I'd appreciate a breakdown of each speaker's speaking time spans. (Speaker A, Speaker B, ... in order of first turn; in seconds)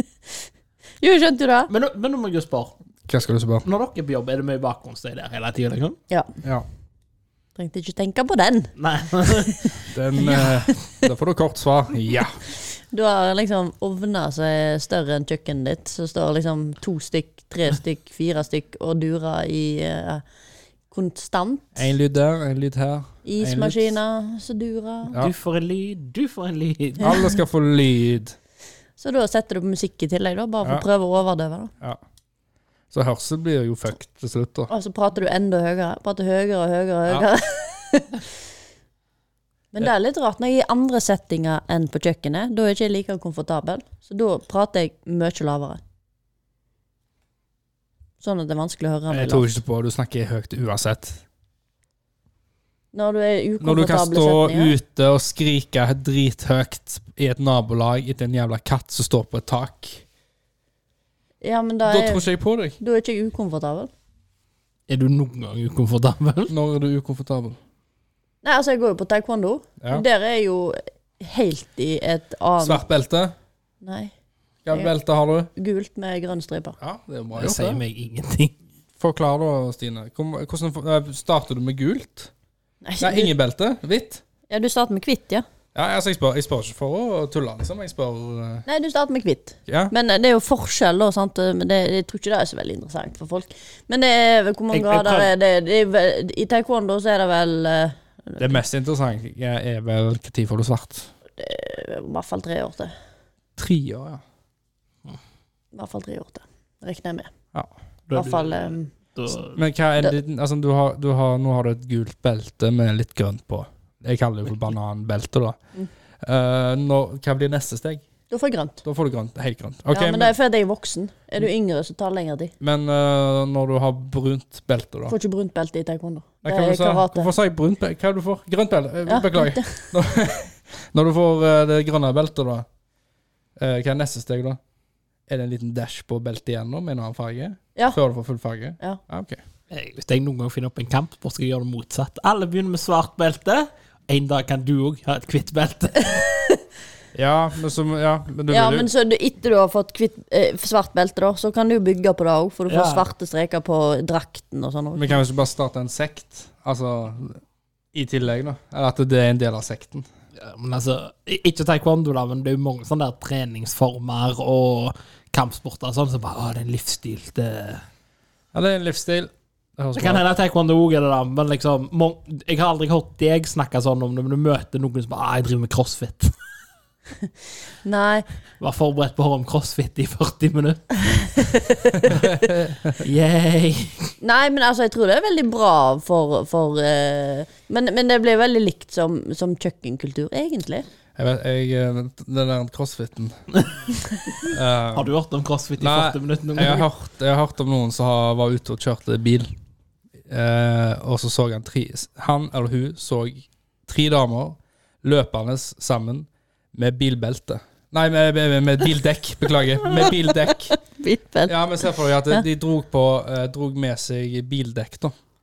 Speaker A: 1.0-1.7, 7.6-8.7, 9.4-10.6, 12.8-20.2, 20.9-21.8, 23.2-25.2, 29.0-31.7, 34.7-38.2, 39.7-45.8, 48.2-49.5, 52.9-54.7, 61.4-62.3, 62.8-63.9, 68.4-72.8, 73.8-74.1, 75.5-76.8, 82.8-83.3, 84.5-85.4, 88.7-98.6, 101.4-102.9, 105.7-107.3, 108.1-108.9, 118.3-118.8, 119.9-122.5, 125.1-127.3, 129.1-129.9, 148.5-155.2, 177.8-178.3, 181.2-182.1, 184.2-190.8, 209.8-211.6
Speaker B: 1.7-2.8, 3.6-6.0, 8.8-9.8, 25.1-27.2, 64.9-66.5, 77.4-78.5, 94.7-95.3, 108.1-109.6, 139.7-146.3, 152.7-153.1, 160.4-167.8, 169.9-176.3, 178.6-181.4, 182.9-184.1, 194.9-196.8
Speaker C: 3.1-3.6, 9.9-12.4, 21.8-23.9, 27.0-28.4, 32.9-34.7, 49.1-51.2, 53.6-60.0, 61.8-62.8, 66.5-67.6, 72.6-73.3, 74.6-75.5, 76.8-77.8, 79.0-82.3, 83.0-84.2, 85.7-88.7, 89.7-89.9, 98.4-101.1, 103.6-104.2, 109.5-115.6, 116.2-118.0, 118.8-120.3, 122.6-125.1, 126.4-132.7, 133.6-134.6, 135.3-139.4, 147.1-148.9, 154.9-157.4, 157.9-160.1, 168.5-170.2, 182.0-183.0, 191.2-193.4, 194.4-195.1, 195.8-199.5, 200.3-210.7, 211.4-215.1